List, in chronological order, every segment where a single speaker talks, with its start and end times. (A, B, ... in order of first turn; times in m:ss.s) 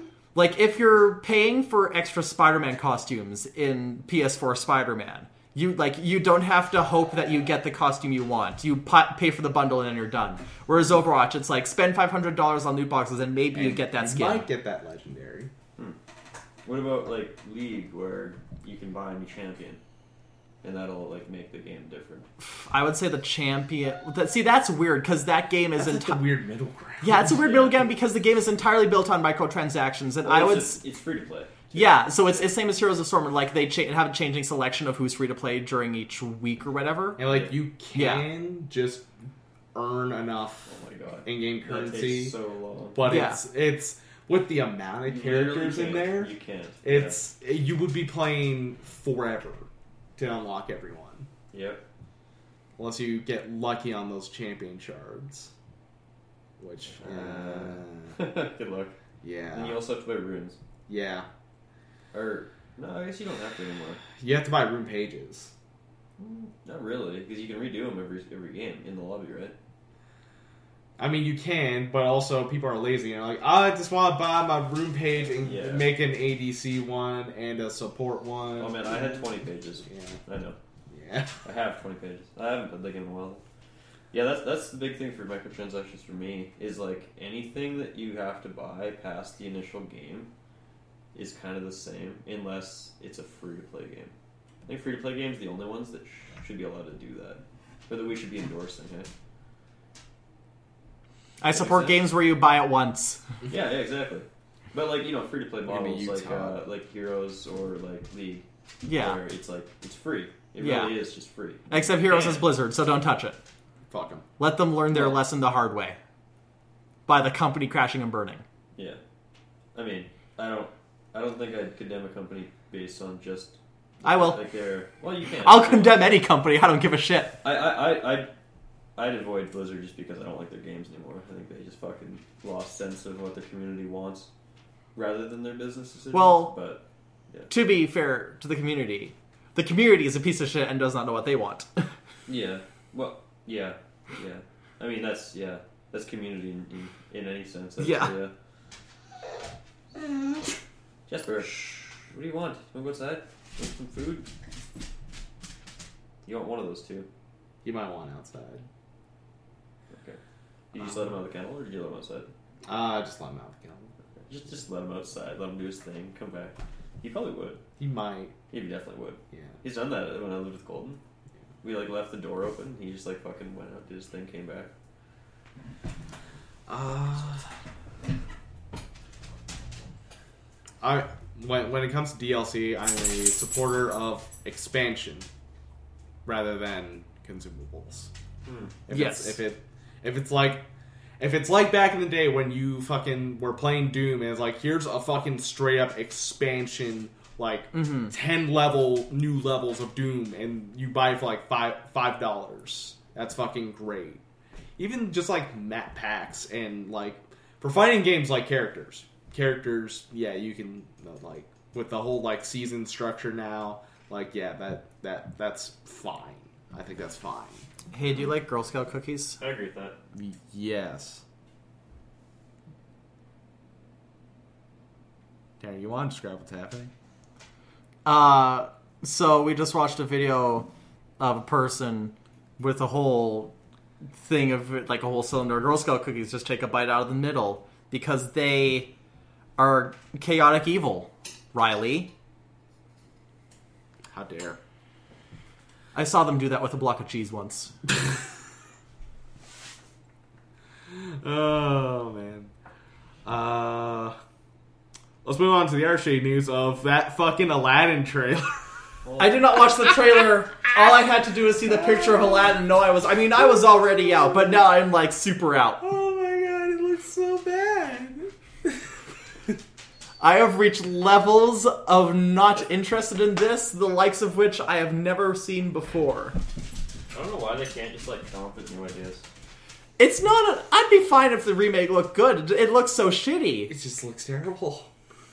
0:00.3-0:14.5 A
0:13.5-0:15.5 B
0:16.6-0:19.8 C
0:20.6-0:22.3 C
0:22.4-0:26.2 A
0:25.8-0:27.4 B
0:27.0-0:30.8 A
0:27.2-0:27.8 C
0:30.2-0:32.0 C
0:31.7-0:37.2 A
0:37.2-0:39.1 B
0:37.9-0:38.3 A
0:39.7-0:40.7 B
0:40.7-0:43.0 C
0:41.2-0:42.3 B
0:42.9-0:46.3 B
0:43.0-0:43.4 A
0:45.0-0:47.2 C
0:46.8-0:51.3 B
0:51.5-0:51.8 C
0:52.8-0:55.5 B
0:56.6-0:58.2 B
0:57.0-0:58.9 C
0:59.2-0:59.8 B
0:59.5-1:00.6 C
1:00.9-1:01.3 B
1:02.1-1:04.0 C
1:04.2-1:05.5 B
1:06.2-1:09.6 C
1:11.0-1:19.2 B
1:15.3-1:15.9 C
1:18.6-1:20.6 C
1:19.8-1:20.2 B
1:20.9-1:21.4 B
1:21.4-1:23.4 C
1:24.1-1:30.3 C
1:31.1-1:34.1 C
1:34.6-1:39.1 C
1:41.4-1:43.2 A
1:41.5-1:42.0 C
1:43.5-1:52.5 C
1:45.6-1:46.6 B
1:48.8-1:49.2 A
1:50.6-1:50.9 A
1:51.7-1:53.4 A
1:53.9-1:54.2 B
1:54.4-1:56.0 A
1:57.1-1:58.4 A
1:58.7-1:59.0 C
1:59.7-2:06.1 C
2:04.0-2:04.4 A
2:05.4-2:07.4 A
2:07.4-2:08.3 C
2:09.0-2:14.3 C
2:14.9-2:17.5 C
2:16.1-2:16.5 A
2:17.5-2:21.7 A
2:22.3-2:28.3 C
2:27.8-2:28.1 A
2:31.1-2:34.3 C
2:36.2-2:37.1 C
2:37.6-2:38.6 B
2:39.9-2:40.2 C
2:40.7-2:42.3 C
2:42.6-2:43.9 B
2:44.3-2:47.6 C
2:47.8-2:48.4 B
2:48.5-2:51.0 C
2:49.3-2:49.6 B
2:51.6-2:54.7 C
2:56.7-2:57.4 B
3:00.8-3:05.3 B
3:06.2-3:08.1 B
3:08.4-3:08.7 C
3:08.9-3:10.6 B
3:08.9-3:09.4 A
3:11.2-3:24.2 B
3:17.7-3:18.1 A
3:24.8-3:37.7 B
3:37.9-3:39.4 A
3:39.4-3:40.0 C
3:40.1-3:41.2 B
3:45.6-3:46.9 B
3:48.0-3:53.5 A
3:54.2-3:58.9 A
3:59.6-4:02.1 A
4:04.1-4:04.6 B
4:05.9-4:07.7 A
4:10.9-4:12.5 B
4:13.2-4:14.2 B
4:15.2-4:18.6 B
4:19.0-4:19.4 C
4:19.2-4:25.8 A
4:25.8-4:28.8 B
4:30.2-4:36.4 A
4:37.1-4:39.2 C
4:40.0-4:43.7 A
4:43.7-4:44.9 B